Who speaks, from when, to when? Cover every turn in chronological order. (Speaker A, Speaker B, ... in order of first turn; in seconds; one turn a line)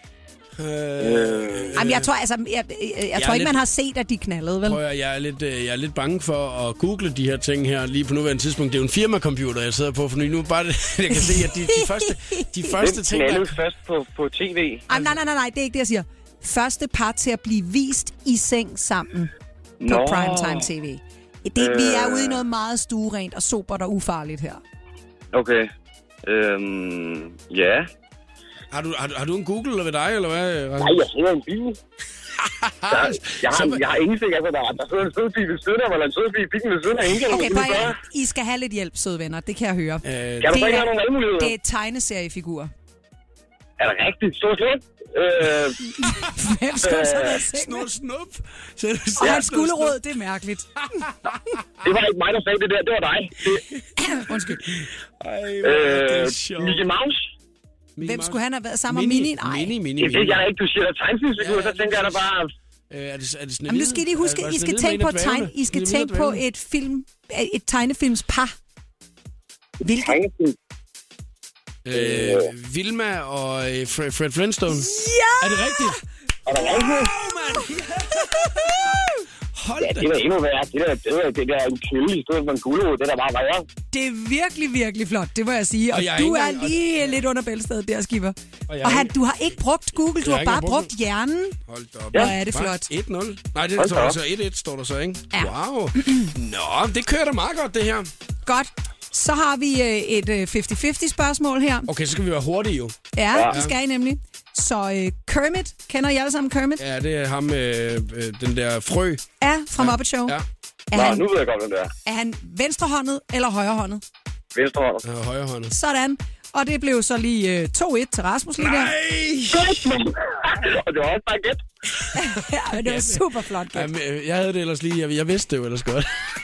Speaker A: 0.6-2.1
Speaker B: 1.0-1.8
Speaker C: 1.8-4.8
Speaker A: 3.1-3.6
Speaker A: 4.7-13.6
Speaker B: 12.8-14.8
Speaker C: 14.9-19.3
Speaker B: 19.8-20.7
Speaker C: 19.9-24.6
Speaker B: 21.6-22.4
Speaker B: 25.3-25.7
Speaker B: 26.2-27.9
Speaker A: 28.7-31.1
Speaker B: 30.8-31.8
Speaker A: 32.4-33.8
Speaker B: 32.9-38.0
Speaker C: 37.3-42.7
Speaker A: 40.0-40.6
Speaker B: 40.4-41.5
Speaker B: 43.8-45.8
Speaker C: 46.0-47.9
Speaker B: 46.8-47.4
Speaker A: 47.5-50.0
Speaker C: 49.2-51.0
Speaker A: 51.0-51.4
Speaker B: 51.8-53.6
Speaker C: 54.0-54.6
Speaker A: 54.1-56.9
Speaker B: 55.6-57.2
Speaker A: 58.0-60.5
Speaker C: 58.0-59.7
Speaker B: 60.0-62.5
Speaker A: 61.4-62.3
Speaker A: 62.9-66.4
Speaker C: 63.7-68.5
Speaker C: 69.8-70.2
Speaker B: 69.9-70.6
Speaker A: 71.8-80.2
Speaker B: 71.9-72.5
Speaker C: 74.7-76.0
Speaker B: 76.5-77.1
Speaker C: 78.4-79.1
Speaker B: 79.8-83.7
Speaker C: 83.9-91.6
Speaker A: 85.9-87.2
Speaker A: 88.7-89.1
Speaker A: 90.1-90.9
Speaker A: 91.7-98.1
Speaker C: 92.1-92.9
Speaker B: 93.8-94.2
Speaker C: 95.3-96.3
Speaker C: 98.5-101.9
Speaker A: 101.9-103.7
Speaker C: 103.2-106.8
Speaker A: 106.8-109.2
Speaker C: 109.4-110.4
Speaker A: 109.8-110.5
Speaker C: 110.9-111.2
Speaker B: 110.9-111.9
Speaker C: 112.0-114.0
Speaker B: 114.5-115.0
Speaker A: 115.0-115.7
Speaker C: 115.7-118.9
Speaker A: 118.6-119.9
Speaker B: 119.5-121.6
Speaker C: 122.2-123.9
Speaker A: 122.7-126.3